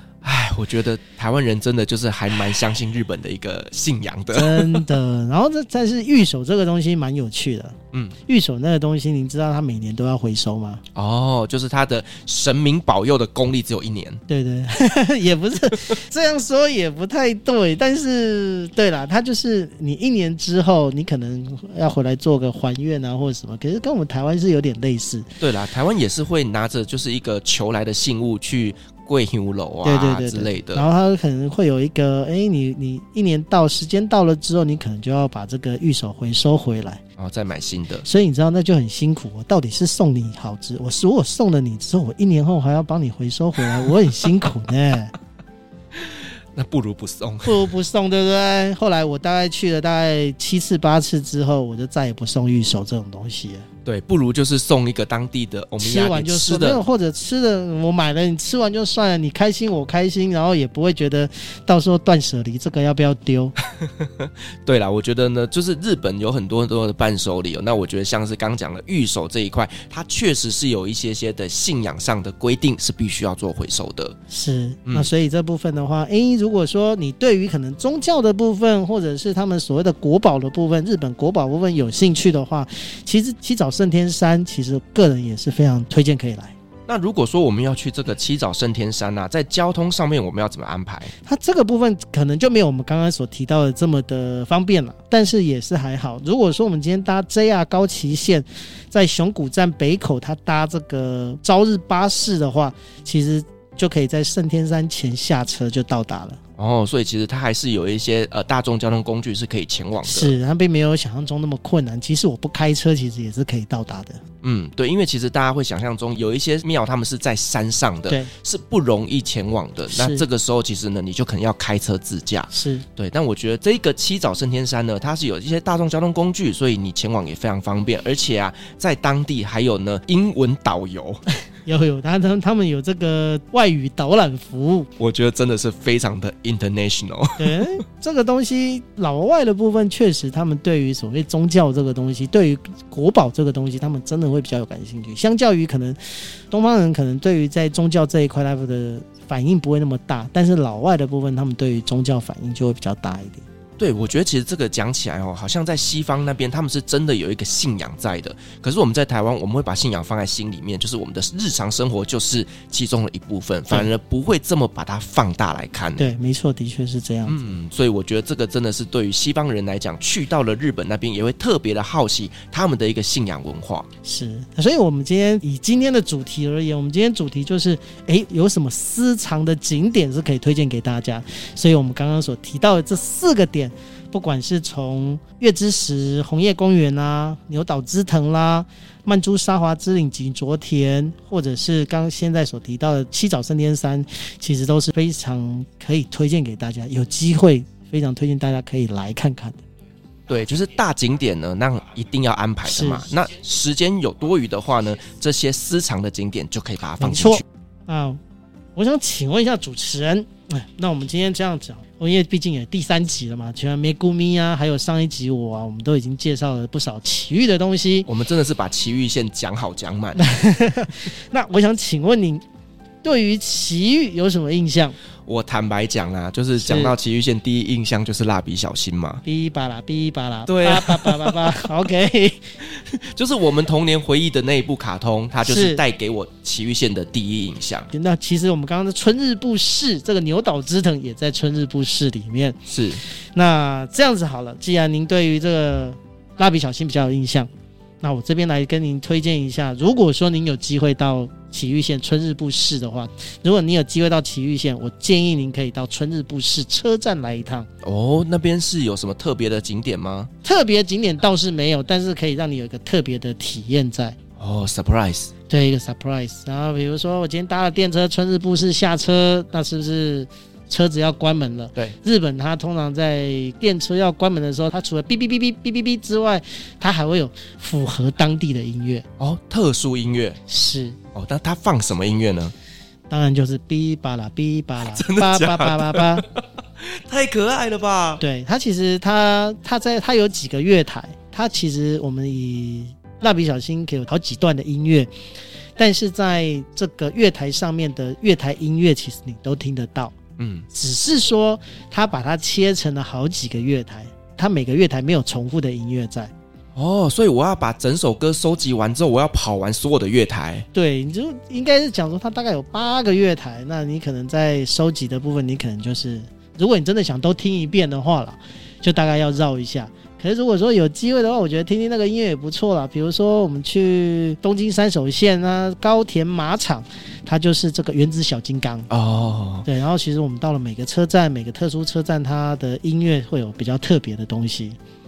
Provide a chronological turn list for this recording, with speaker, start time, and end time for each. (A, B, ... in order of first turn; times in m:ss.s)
0:00.2-0:04.9 A
0:04.3-0:10.8 B
0:11.0-0:14.2 A
0:14.3-0:25.3 B
0:25.4-0:30.9 A
0:29.8-0:37.0 B
0:37.2-0:38.1 A
0:38.0-0:45.1 B
0:46.0-0:47.6 A
0:47.4-0:53.7 B
0:53.8-0:56.8 A
0:55.8-1:03.5 B
1:03.8-1:14.2 A
1:14.3-1:26.6 B
1:26.9-1:31.1 A
1:31.2-1:46.4 B
1:46.6-1:50.4 A
1:50.0-1:54.2 B
1:54.4-2:11.2 A
1:59.9-2:00.3 B
2:02.5-2:02.9 B
2:11.6-2:14.9 B
2:15.0-2:17.8 A
2:17.4-2:33.4 B
2:33.8-2:46.1 A
2:46.0-2:47.5 B
2:47.3-2:53.9 A
2:54.0-3:19.6 B
3:20.3-3:27.4 A
3:22.6-3:23.1 B
3:27.0-3:28.2 B
3:28.8-3:38.1 B
3:38.1-3:40.3 A
3:40.2-3:42.4 B
3:43.0-3:45.0 B
3:45.3-3:49.2 A
3:46.6-3:47.0 B
3:49.2-3:52.4 B
3:50.5-3:51.7 A
3:52.6-3:57.9 A
3:55.4-3:55.8 B
3:57.9-4:07.5 B
4:02.7-4:03.0 A
4:08.0-4:17.7 B
4:17.8-4:20.3 A
4:20.4-4:24.2 B
4:24.4-4:25.3 A
4:25.5-4:39.0 B
4:39.2-4:40.4 A
4:40.5-4:41.0 B
4:41.1-4:42.5 A
4:43.1-4:46.2 B
4:44.8-4:48.2 A
4:48.2-4:55.1 B
4:55.8-5:00.2 B
5:00.4-5:00.7 A
5:00.7-5:06.3 B
5:06.8-5:10.7 A
5:10.7-5:28.9 B
5:28.9-5:29.7 A
5:29.6-5:34.8 B